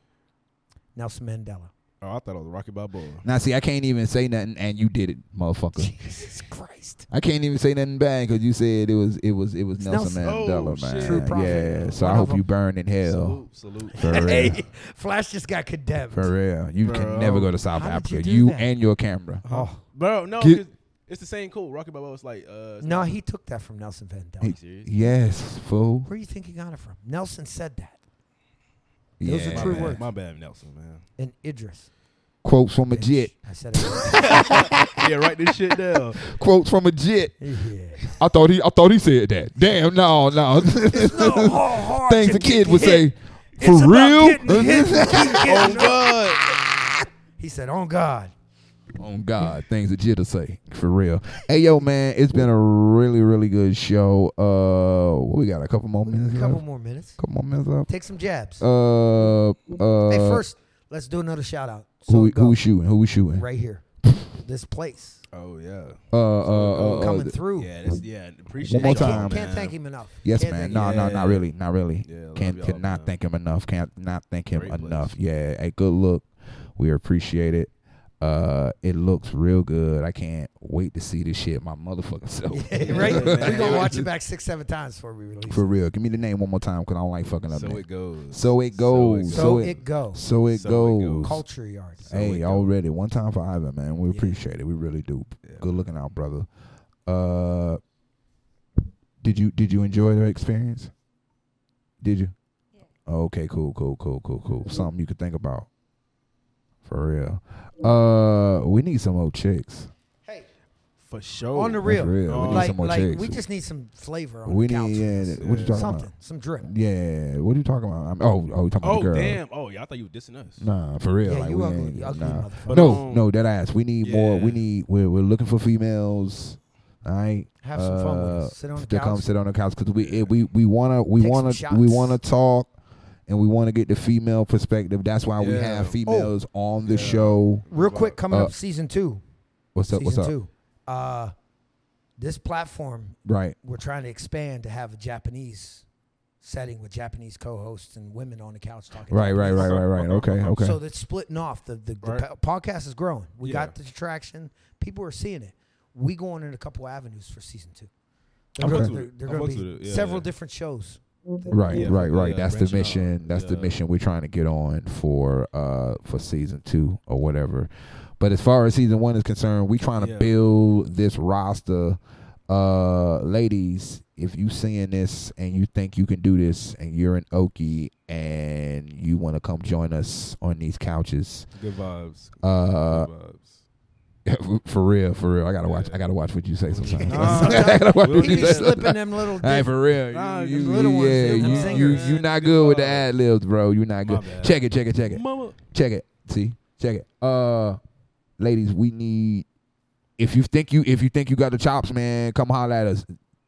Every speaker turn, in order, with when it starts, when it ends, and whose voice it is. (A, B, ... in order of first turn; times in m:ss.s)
0:01.0-0:01.7 A
0:02.0-0:03.3 B
0:03.2-0:05.9 C
0:05.8-0:07.1 A
0:07.1-0:13.4 C
0:09.8-0:10.4 A
0:10.2-0:12.0 B
0:11.0-0:12.4 A
0:13.0-0:14.6 B
0:13.9-0:14.6 C
0:14.0-0:16.3 A
0:16.1-0:19.4 C
0:16.8-0:17.5 B
0:17.7-0:18.7 A
0:19.4-0:23.1 B
0:19.5-0:19.8 A
0:22.8-0:24.6 A
0:24.4-0:26.1 C
0:24.4-0:24.9 B
0:26.1-0:28.0 A
0:29.2-0:30.0 C
0:29.2-0:30.1 A
0:29.5-0:31.0 B
0:31.2-0:31.9 A
0:32.4-0:33.3 C
0:32.9-0:34.5 A
0:33.9-0:35.0 C
0:34.1-0:36.2 B
0:36.2-0:37.4 C
0:37.4-0:38.0 A
0:38.0-0:45.9 C
0:40.7-0:46.2 A
0:44.5-0:44.8 B
0:45.3-0:46.4 B
0:47.4-0:48.3 A
0:49.0-0:56.6 C
0:56.1-0:57.2 A
0:57.2-0:57.9 C
0:57.9-0:58.6 A
0:58.6-1:00.4 C
1:00.1-1:02.6 A
1:02.1-1:03.5 C
1:03.3-1:03.8 A
1:04.4-1:05.2 A
1:05.3-1:09.8 B
1:06.1-1:07.4 C
1:06.9-1:07.7 A
1:08.6-1:09.6 C
1:08.7-1:10.9 A
1:10.2-1:24.1 C
1:10.6-1:11.5 B
1:12.0-1:13.2 B
1:14.5-1:15.2 B
1:22.5-1:25.7 A
1:22.8-1:23.9 B
1:25.5-1:31.4 C
1:27.5-1:29.8 B
1:29.3-1:30.2 A
1:30.5-1:31.4 B
1:31.2-1:32.0 A
1:32.0-1:32.7 B
1:32.1-1:36.5 C
1:34.1-1:34.4 A
1:35.4-1:35.7 B
1:37.1-1:37.8 C
1:39.2-1:40.9 C
1:42.0-1:42.3 C
1:43.1-1:45.7 C
1:46.9-1:49.9 C
1:51.0-1:52.8 B
1:51.6-1:56.7 A
1:51.8-1:53.4 C
1:54.5-1:56.1 C
1:55.4-1:55.8 B
1:56.6-1:59.4 C
1:58.8-2:00.7 B
2:00.6-2:12.7 C
2:01.2-2:03.0 A
2:02.7-2:03.3 B
2:04.0-2:04.6 B
2:07.6-2:09.3 A
2:10.0-2:10.4 B
2:11.2-2:12.2 A
2:13.3-2:17.7 C
2:15.4-2:16.0 B
2:16.1-2:16.3 A
2:16.8-2:18.2 B
2:17.7-2:19.2 A
2:19.8-2:20.3 C
2:19.9-2:21.3 A
2:22.2-2:25.8 A
2:23.2-2:23.6 C
2:26.4-2:29.8 A
2:29.1-2:30.8 C
2:29.5-2:30.7 B
2:30.6-2:37.9 A
2:33.4-2:33.7 B
2:38.6-2:41.0 A
2:38.6-2:40.3 B
2:38.6-2:39.0 C
2:41.5-3:01.5 C
2:41.7-2:43.8 B
2:50.0-2:50.3 B
3:01.6-3:03.6 B
3:02.4-3:03.1 C
3:04.3-3:17.8 C
3:05.6-3:06.0 B
3:06.7-3:08.8 B
3:06.8-3:09.7 A
3:10.1-3:13.1 B
3:10.5-3:12.2 A
3:14.1-3:15.6 B
3:18.4-3:19.5 C
3:20.2-3:23.1 C